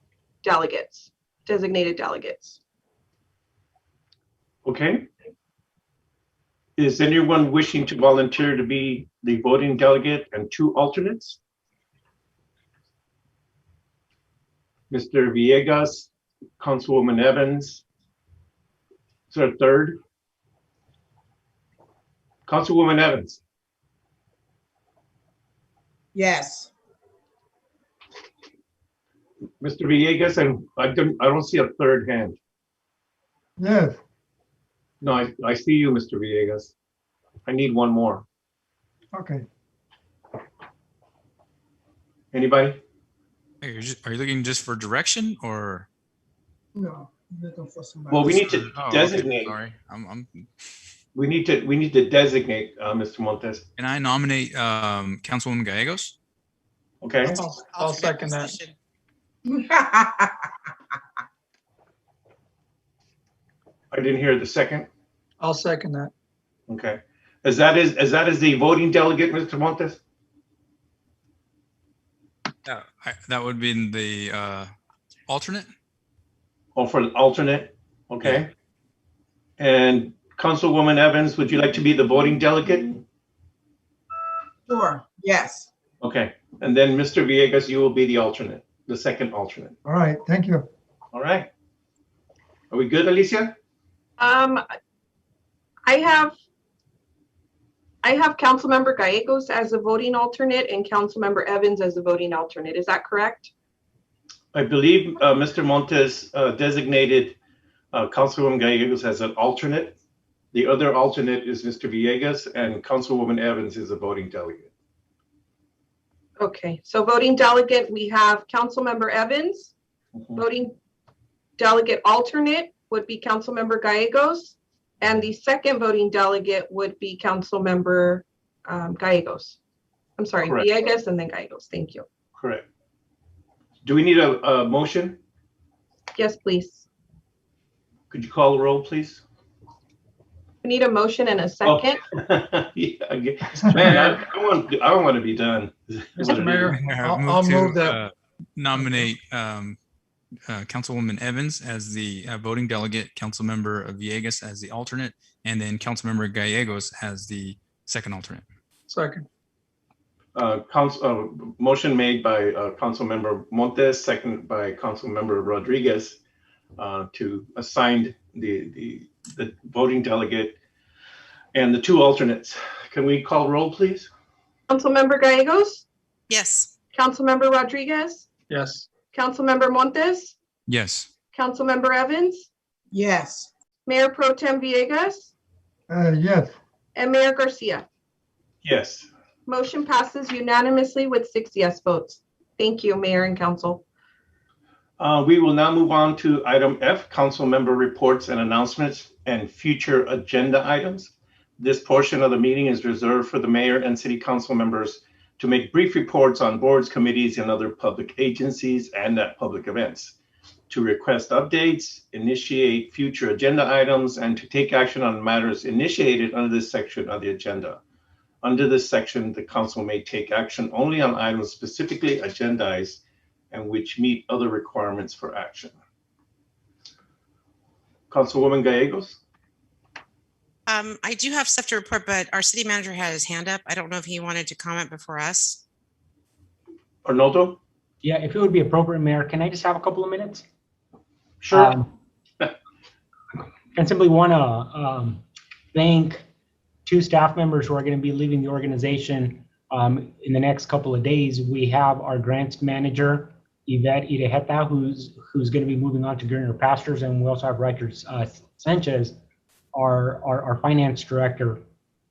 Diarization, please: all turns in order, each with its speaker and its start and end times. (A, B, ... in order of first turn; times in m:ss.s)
0:00.4-0:02.6 A
0:04.6-0:05.1 B
0:06.8-0:11.4 B
0:14.9-0:17.8 B
0:19.3-0:20.0 B
0:22.5-0:23.4 B
0:26.1-0:26.7 C
0:29.6-0:32.4 B
0:33.6-0:34.0 D
0:35.0-0:36.7 B
0:37.5-0:38.2 B
0:39.1-0:39.5 D
0:42.3-0:42.8 B
0:43.6-0:45.9 E
0:46.8-0:48.6 C
0:48.1-0:49.6 B
0:48.7-0:50.5 E
0:51.2-0:53.6 B
0:53.8-0:56.2 E
0:57.0-0:57.4 B
0:57.2-0:58.6 F
0:57.7-0:58.8 G
0:59.5-1:00.4 C
1:03.9-1:04.9 B
1:05.4-1:06.1 F
1:06.7-1:10.0 B
1:12.6-1:14.7 E
1:15.3-1:15.7 E
1:16.8-1:18.5 B
1:18.2-1:18.5 E
1:19.6-1:23.0 B
1:24.7-1:25.7 C
1:26.0-1:29.8 B
1:29.8-1:30.7 D
1:31.1-1:31.5 B
1:32.7-1:33.6 B
1:34.2-1:34.6 A
1:35.9-1:36.4 A
1:38.0-1:43.5 A
1:44.5-1:47.4 B
1:47.9-1:50.0 B
1:50.5-1:54.7 B
1:56.4-1:59.7 A
2:00.4-2:00.8 A
2:01.6-2:09.6 A
2:10.2-2:12.1 A
2:12.4-2:12.7 B
2:13.8-2:15.2 B
2:16.2-2:16.9 A
2:18.1-2:19.2 B
2:20.6-2:22.0 A
2:21.7-2:26.7 B
2:23.8-2:24.2 F
2:26.2-2:28.0 F
2:26.7-2:29.8 E
2:30.5-2:38.5 E
2:38.9-2:39.3 F
2:40.4-2:46.2 B
2:46.8-2:50.6 B
2:51.5-2:54.1 B
2:54.7-2:55.8 A
2:56.3-2:56.7 G
2:56.9-2:58.3 A
2:58.5-2:58.9 F
2:59.1-3:00.4 A
3:00.7-3:01.1 E
3:01.3-3:02.5 A
3:02.9-3:03.5 C
3:03.9-3:05.3 A
3:05.9-3:06.5 D
3:07.0-3:07.9 A
3:08.6-3:09.1 B
3:09.5-3:13.8 A
3:15.0-3:30.2 B
3:30.7-3:37.8 B
3:38.4-3:43.0 B
3:43.5-3:45.8 B
3:48.1-3:49.2 B
3:50.7-3:55.6 G
3:57.0-3:57.6 B
3:58.0-4:00.4 H
4:01.4-4:01.7 B
4:01.5-4:01.8 H
4:03.8-4:05.2 H
4:05.7-4:06.2 H
4:06.9-4:19.1 H
4:19.7-4:21.6 H